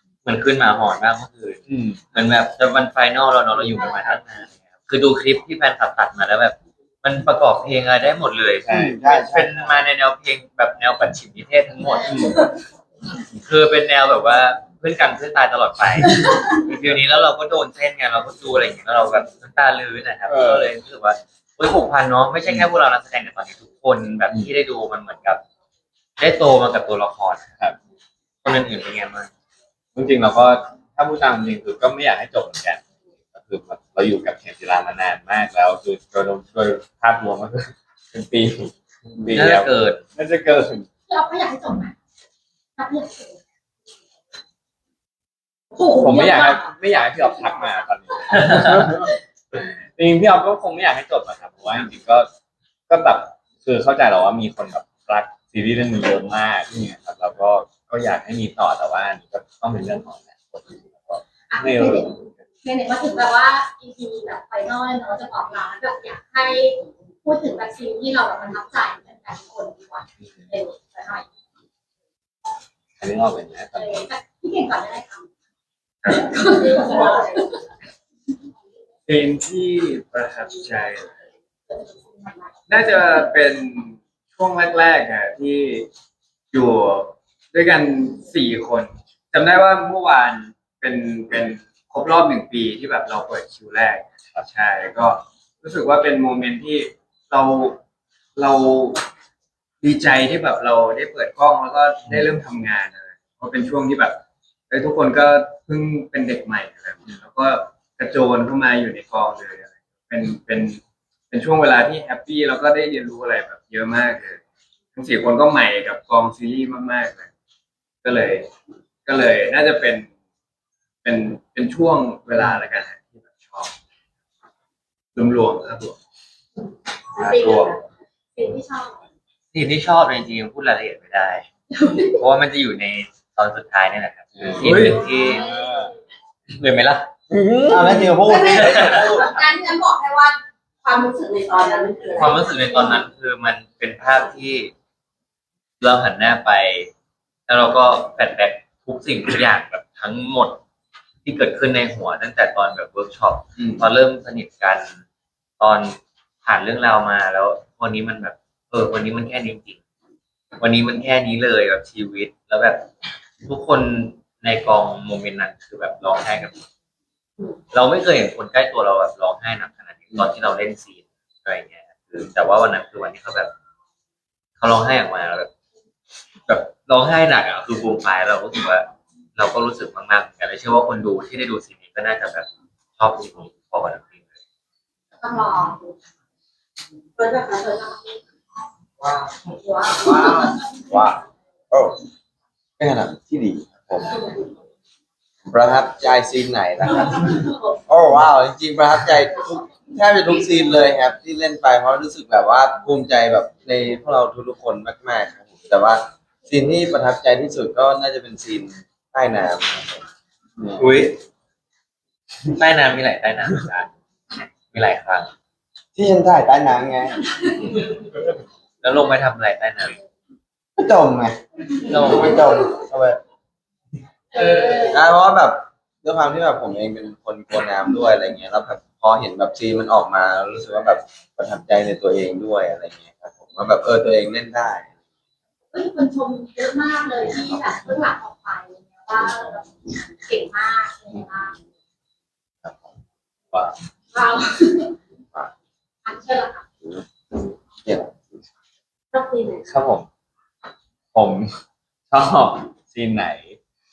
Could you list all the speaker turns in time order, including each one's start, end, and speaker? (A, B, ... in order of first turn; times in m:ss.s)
0:00.2-0:12.2 A
0:01.7-0:02.0 B
0:03.8-0:04.2 C
0:08.7-0:09.0 B
0:08.7-0:09.7 D
0:12.1-0:12.4 B
0:13.4-0:25.4 A
0:20.3-0:20.7 B
0:26.2-0:27.5 A
0:28.4-0:29.3 A
0:30.0-0:40.9 B
0:39.3-0:40.0 A
0:41.1-0:42.0 E
0:42.8-0:43.4 E
0:45.7-0:47.8 E
0:46.0-0:52.3 B
0:48.3-0:49.0 A
0:52.9-1:02.3 B
1:01.5-1:11.3 E
1:13.0-1:14.1 B
1:13.7-1:15.3 E
1:16.0-1:16.4 C
1:16.1-1:17.6 E
1:16.6-1:17.4 F
1:19.1-1:21.2 C
1:21.7-1:22.5 E
1:22.7-1:25.9 C
1:26.5-1:37.8 C
1:38.4-1:39.0 C
1:39.8-1:54.4 C
1:55.0-1:57.3 C
1:58.0-1:58.5 C
1:59.1-2:00.1 C
2:01.0-2:03.7 C
2:05.2-2:06.0 C
2:07.2-2:07.8 E
2:07.2-2:07.7 A
2:08.4-2:09.0 E
2:09.5-2:11.5 A
2:12.2-2:15.5 A
2:14.4-2:15.9 B
2:15.3-2:15.9 E
2:16.5-2:17.1 A
2:17.3-2:19.4 D
2:18.2-2:22.9 F
2:18.6-2:19.1 A
2:22.2-2:24.7 A
2:25.8-2:26.9 A
2:27.5-2:30.6 A
2:31.2-2:35.0 A
2:33.6-2:33.8 C
2:35.6-2:39.8 A
2:40.6-2:42.9 A
2:43.4-2:46.6 A
2:47.7-2:53.5 A
2:54.6-2:55.5 A
2:56.5-3:02.5 A
3:03.0-3:04.2 A
3:05.2-3:05.9 E
3:07.2-3:08.2 F
3:09.8-3:10.6 E
3:10.9-3:12.0 D
3:12.8-3:14.2 D
3:15.5-3:17.3 D
3:17.9-3:30.0 D
3:30.6-3:31.2 D
3:32.5-3:33.9 A
3:34.7-3:35.3 A
3:36.0-3:37.2 D
3:38.8-3:40.0 A
3:40.8-3:41.4 D
3:41.9-3:42.4 A
3:41.9-3:43.2 D
3:44.4-3:45.0 E
3:44.9-3:54.9 D
3:55.7-4:01.6 E
4:04.1-4:04.9 E
4:06.0-4:06.6 E
4:06.9-4:08.2 D
4:09.1-4:09.9 F
4:09.7-4:10.1 B
4:11.1-4:11.5 B
4:12.1-4:13.6 B